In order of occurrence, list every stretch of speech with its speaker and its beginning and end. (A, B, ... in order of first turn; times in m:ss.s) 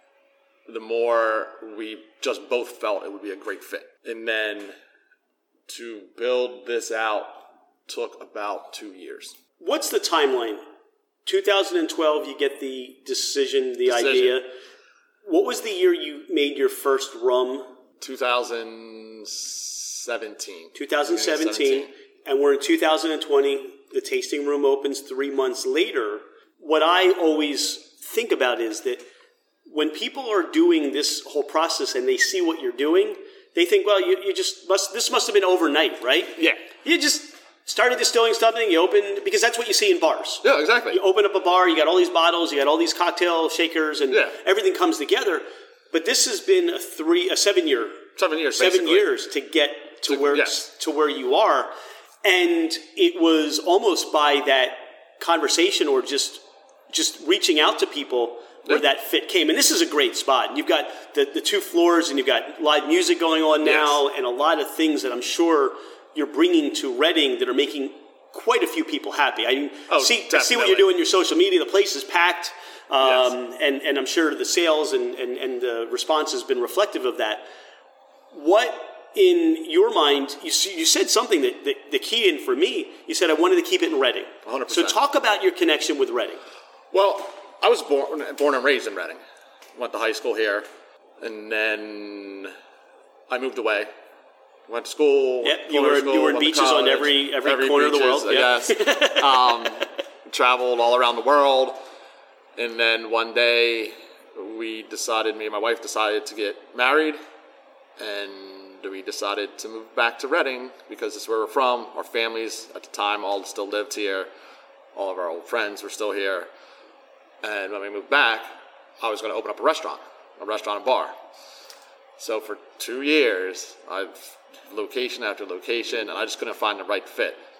0:00.7-0:04.7 A
0:05.7-0:09.3 A
0:09.6-0:10.6 B
0:11.3-0:14.5 B
0:13.9-0:14.4 A
0:15.2-0:17.7 B
0:18.0-0:21.9 A
0:20.8-0:29.0 B
0:29.7-0:48.0 B
0:40.4-0:41.0 A
0:44.1-0:44.4 A
0:48.2-0:49.1 A
0:48.6-0:51.7 B
0:50.1-0:50.7 A
0:52.2-1:17.5 B
1:03.6-1:04.0 A
1:09.9-1:10.9 A
1:13.0-1:13.3 A
1:18.3-1:26.4 B
1:24.4-1:25.0 A
1:26.9-1:29.2 A
1:29.8-1:30.7 A
1:31.2-1:32.5 A
1:33.3-1:33.9 A
1:34.7-1:41.8 A
1:35.4-1:39.6 B
1:42.6-1:47.2 A
1:48.0-1:54.3 A
1:55.0-1:56.5 A
1:57.4-1:58.5 A
1:59.0-2:01.1 A
2:02.2-2:07.4 A